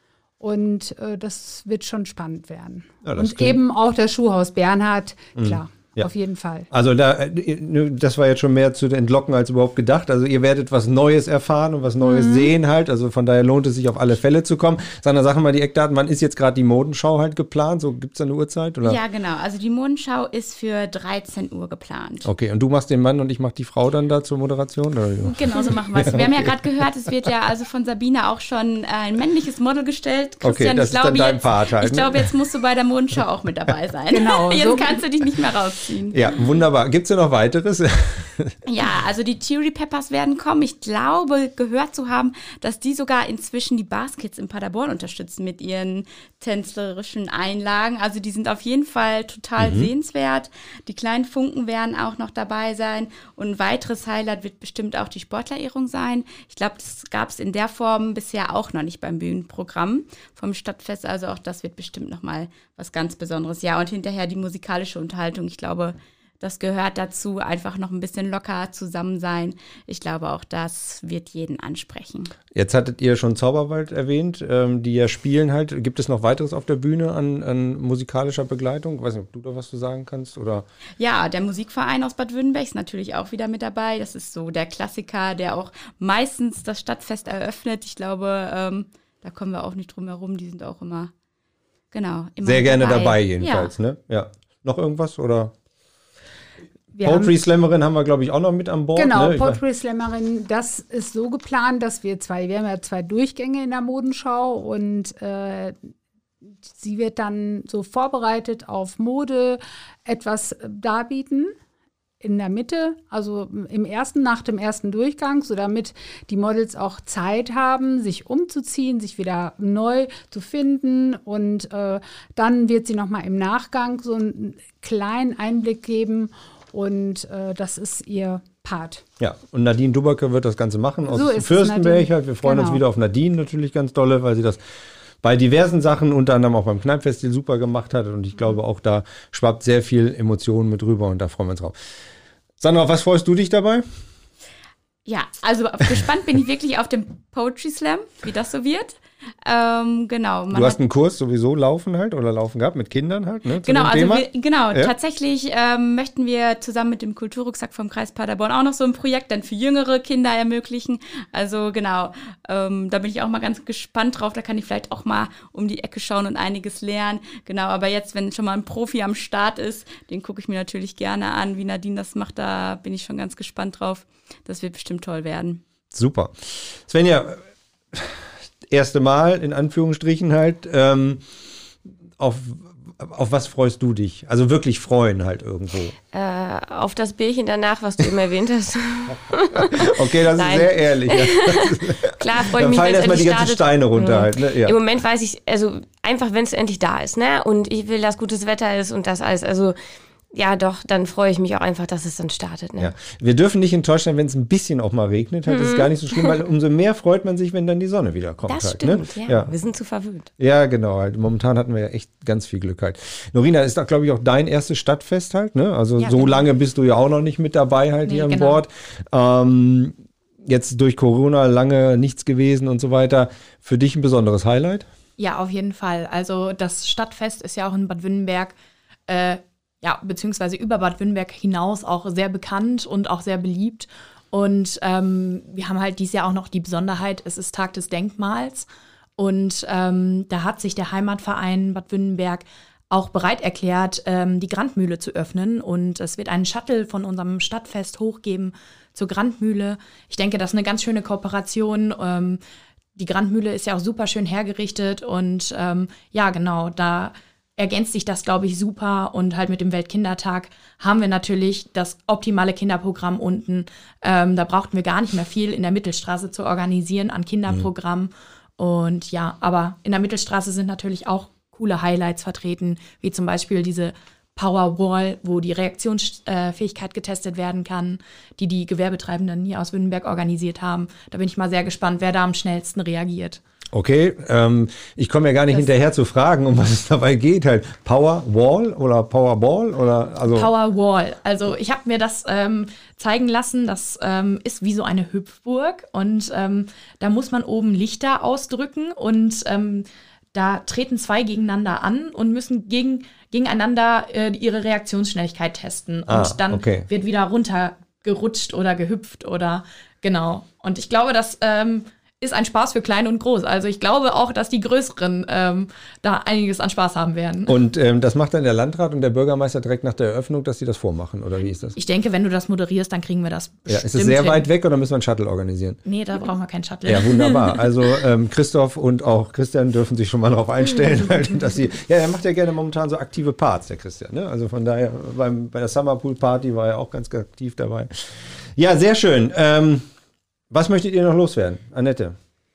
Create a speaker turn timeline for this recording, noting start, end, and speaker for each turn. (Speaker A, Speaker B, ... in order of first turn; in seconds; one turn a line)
Speaker A: 0.4-6.7
Speaker B: 3.0-3.6
Speaker B: 5.3-6.1
Speaker B: 6.7-19.0
Speaker A: 12.0-12.5
Speaker C: 18.8-22.3
Speaker B: 22.2-26.5
Speaker C: 25.2-36.2
Speaker B: 30.4-32.3
Speaker A: 34.1-35.0
Speaker B: 36.1-38.5
Speaker C: 38.6-72.3
Speaker B: 49.6-49.9
Speaker B: 72.5-80.7
Speaker C: 81.0-91.1
Speaker C: 91.9-93.7
Speaker B: 92.4-95.5
Speaker A: 96.9-97.3
Speaker B: 97.0-99.6
Speaker A: 99.0-105.9
Speaker A: 106.4-111.5
Speaker A: 112.2-129.0
Speaker B: 129.2-134.6
Speaker A: 131.1-132.8
Speaker B: 135.2-141.7
Speaker B: 142.6-143.8
Speaker C: 145.1-150.8
Speaker B: 150.5-154.9
Speaker C: 153.6-175.6
Speaker B: 175.9-177.4
Speaker B: 177.9-181.2
Speaker B: 182.2-185.9
Speaker D: 186.1-199.8
Speaker B: 189.5-194.8
Speaker D: 200.3-202.9
Speaker B: 202.8-209.5
Speaker D: 205.5-206.3
Speaker D: 208.5-210.3
Speaker B: 210.4-224.9
Speaker E: 216.0-216.3
Speaker E: 218.0-218.6
Speaker E: 225.2-228.5
Speaker E: 229.1-238.7
Speaker E: 239.2-252.4
Speaker E: 252.9-283.4
Speaker B: 283.7-290.5
Speaker E: 290.3-317.5
Speaker B: 306.1-306.9
Speaker B: 317.5-321.8
Speaker E: 321.8-324.4
Speaker B: 323.7-325.8
Speaker E: 325.8-327.7
Speaker B: 326.9-339.8
Speaker B: 340.5-342.1